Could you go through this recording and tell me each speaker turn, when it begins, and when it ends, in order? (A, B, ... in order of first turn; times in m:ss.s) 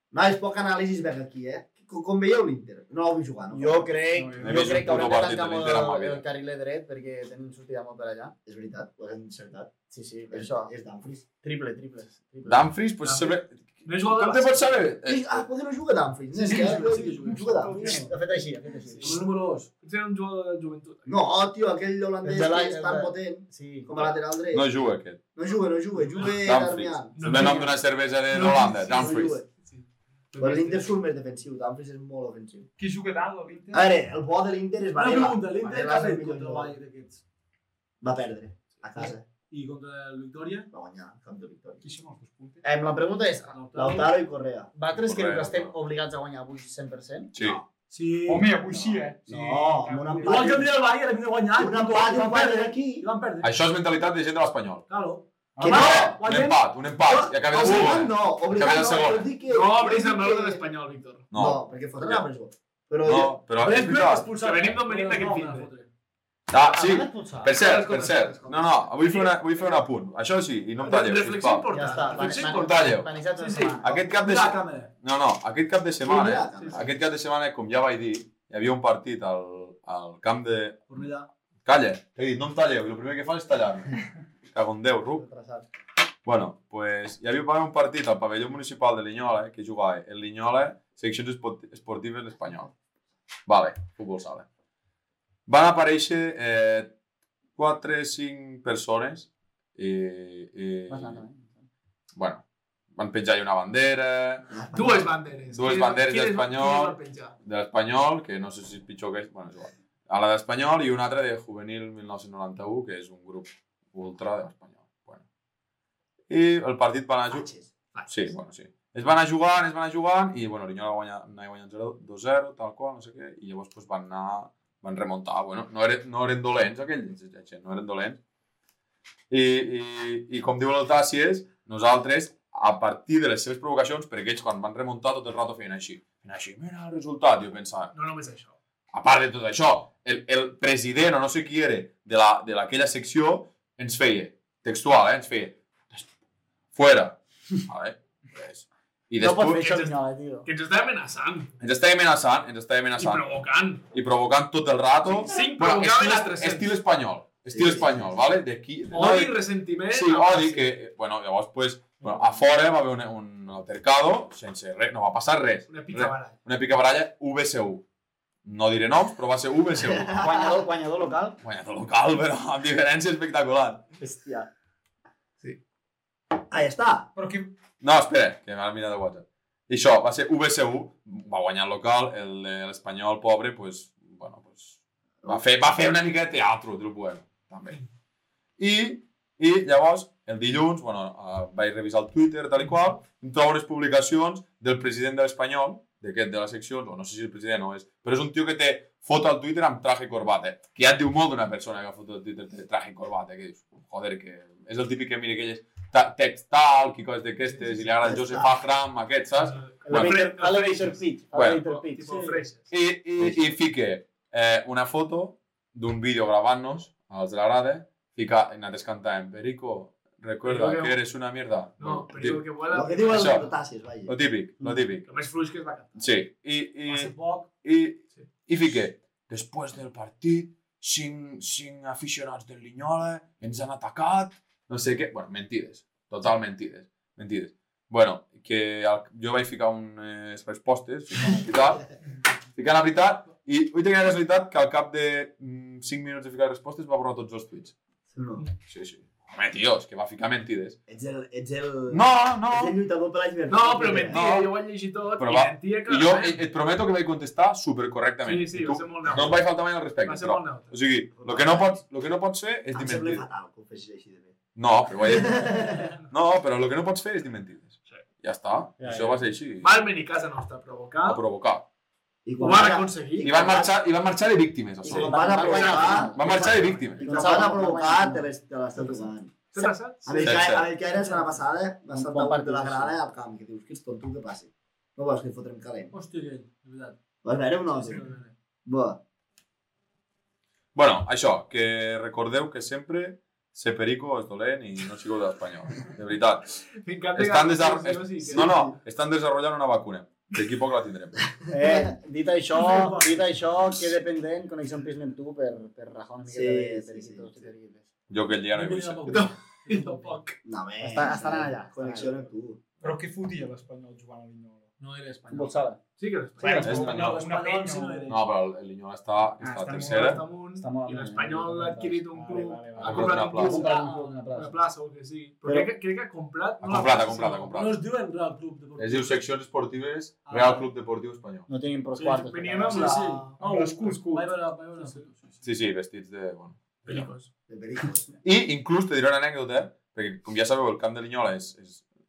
0:00.1-0:03.9 A
0:03.5-0:08.3 B
0:04.1-0:04.8 C
0:04.4-0:06.2 D
0:08.5-0:09.7 A
0:09.9-0:10.7 B
0:10.3-0:11.3 A
0:11.4-0:12.7 B
0:12.4-0:15.4 D
0:13.0-0:14.8 E
0:15.0-0:18.1 A
0:16.3-0:18.1 F
0:17.7-0:18.0 E
0:17.9-0:19.2 B
0:18.8-0:19.2 E
0:19.0-0:19.7 F
0:19.8-0:21.3 E
0:21.1-0:24.7 A
0:22.2-0:24.1 B
0:24.5-0:25.2 D
0:25.4-0:27.2 A
0:26.0-0:26.4 E
0:26.2-0:29.4 D
0:27.2-0:27.8 E
0:27.3-0:27.6 B
0:28.3-0:30.9 E
0:28.9-0:29.5 A
0:30.4-0:32.7 A
0:32.8-0:33.9 C
0:33.7-0:36.7 A
0:35.0-0:37.2 F
0:38.0-0:39.2 A
0:39.5-0:40.7 F
0:40.7-0:41.8 A
0:41.8-0:42.6 C
0:42.6-0:43.6 B
0:43.5-0:44.1 F
0:43.7-0:44.7 A
0:44.7-0:47.3 B
0:44.9-0:45.8 D
0:47.3-0:47.6 D
0:47.9-0:48.5 F
0:48.2-0:50.6 C
0:48.7-0:50.7 A
0:50.2-0:53.5 F
0:51.6-0:53.1 A
0:53.4-0:54.8 D
0:54.9-0:56.6 F
0:55.6-0:55.9 C
0:55.6-0:56.2 A
0:55.6-0:59.3 D
0:57.0-1:00.6 A
0:59.5-1:01.3 E
1:01.3-1:02.2 D
1:01.3-1:03.4 A
1:03.0-1:04.3 D
1:03.5-1:05.9 F
1:04.3-1:05.7 E
1:06.5-1:11.7 D
1:06.6-1:07.8 B
1:07.6-1:08.4 E
1:07.7-1:08.9 A
1:09.0-1:09.4 E
1:10.8-1:13.8 E
1:11.7-1:14.1 B
1:12.5-1:13.1 D
1:13.4-1:14.9 F
1:13.8-1:21.1 D
1:16.0-1:16.9 A
1:16.6-1:16.8 E
1:20.9-1:21.3 F
1:21.6-1:24.0 D
1:24.5-1:25.2 D
1:25.2-1:25.6 B
1:26.2-1:32.7 D
1:33.5-1:34.5 D
1:35.5-1:36.9 D
1:37.6-1:41.2 D
1:40.9-1:41.5 B
1:42.2-1:42.4 D
1:43.0-1:44.5 D
1:44.5-1:45.1 A
1:44.7-1:47.3 E
1:45.5-1:55.2 D
1:56.3-1:57.5 D
1:57.3-1:57.7 A
1:58.1-2:08.2 D
2:09.3-2:17.9 D
2:17.9-2:18.6 E
2:18.9-2:26.1 D
2:26.7-2:29.8 D
2:29.2-2:30.5 B
2:29.6-2:31.5 E
2:31.6-2:33.3 D
2:33.0-2:33.8 E
2:33.9-2:47.8 D
2:35.2-2:36.8 E
2:37.5-2:38.0 A
2:38.9-2:40.7 E
2:45.7-2:46.4 E
2:48.4-2:50.1 D
2:49.9-2:50.6 A
2:50.1-2:51.4 B
2:51.4-2:53.8 D
2:54.0-2:54.5 B
2:56.5-2:57.1 A
2:57.2-2:57.5 C
2:57.8-3:07.8 D
3:08.6-3:30.2 D
3:27.5-3:28.2 E
3:28.0-3:28.5 A
3:29.4-3:32.7 E
3:29.9-3:32.0 B
3:31.3-3:31.6 D
3:32.0-3:32.4 F
3:32.7-3:42.4 D
3:40.4-3:41.0 E
3:41.8-3:43.5 E
3:42.7-3:44.1 A
3:43.1-3:43.5 D
3:44.1-3:45.0 D
3:45.0-3:46.0 E
3:46.0-4:01.8 D
3:46.9-3:47.5 F
4:02.6-4:07.8 D
4:08.1-4:08.4 A
4:08.7-4:10.8 D
4:10.9-4:14.2 A
4:11.9-4:12.8 D
4:13.5-4:16.4 E
4:14.1-4:14.5 D
4:15.2-4:23.3 D
4:18.2-4:19.5 E
4:20.0-4:20.8 E
4:21.2-4:21.8 A
4:22.7-4:24.4 A
4:24.6-4:29.8 D
4:25.0-4:25.9 A
4:25.8-4:26.0 E
4:28.8-4:29.2 B
4:29.6-4:31.2 E
4:31.0-4:31.7 D
4:32.2-4:33.7 A
4:32.4-4:33.4 E
4:33.2-4:37.1 D
4:34.8-4:39.1 B
4:34.8-4:45.9 A
4:35.4-4:35.8 E
4:39.5-4:40.4 E
4:40.2-4:40.7 D
4:40.9-4:41.2 F
4:41.9-4:43.0 B
4:45.9-4:47.0 F
4:47.2-4:48.1 A
4:47.7-4:48.3 F
4:48.6-4:49.0 A
4:50.8-4:56.6 D
4:56.8-4:58.7 E
4:57.2-5:01.3 D
4:58.4-4:58.7 A
5:01.5-5:01.9 A
5:01.5-5:07.9 B
5:02.5-5:03.3 F
5:06.3-5:07.5 A
5:08.1-5:09.3 D
5:08.5-5:10.3 F
5:09.1-5:10.4 E
5:10.4-5:12.6 A
5:10.8-5:12.2 B
5:12.8-5:14.7 C
5:14.8-5:15.7 F
5:15.3-5:15.8 B
5:16.0-5:16.9 E
5:16.4-5:18.1 C
5:16.4-5:18.2 F
5:16.6-5:17.2 D
5:18.1-5:20.2 D
5:19.4-5:20.2 C
5:19.7-5:27.5 E
5:20.6-5:22.1 B
5:22.1-5:23.3 C
5:22.8-5:23.7 D
5:22.8-5:24.6 B
5:23.7-5:24.1 F
5:25.4-5:25.7 B
5:26.6-5:27.8 D
5:27.4-5:29.2 F
5:28.8-5:31.5 D
5:30.3-5:30.7 F
5:31.5-5:33.0 B
5:32.0-5:35.4 F
5:32.2-5:33.4 E
5:33.4-5:34.4 C
5:35.4-5:37.1 D
5:36.8-5:37.3 E
5:37.5-5:38.2 A
5:38.2-5:41.8 D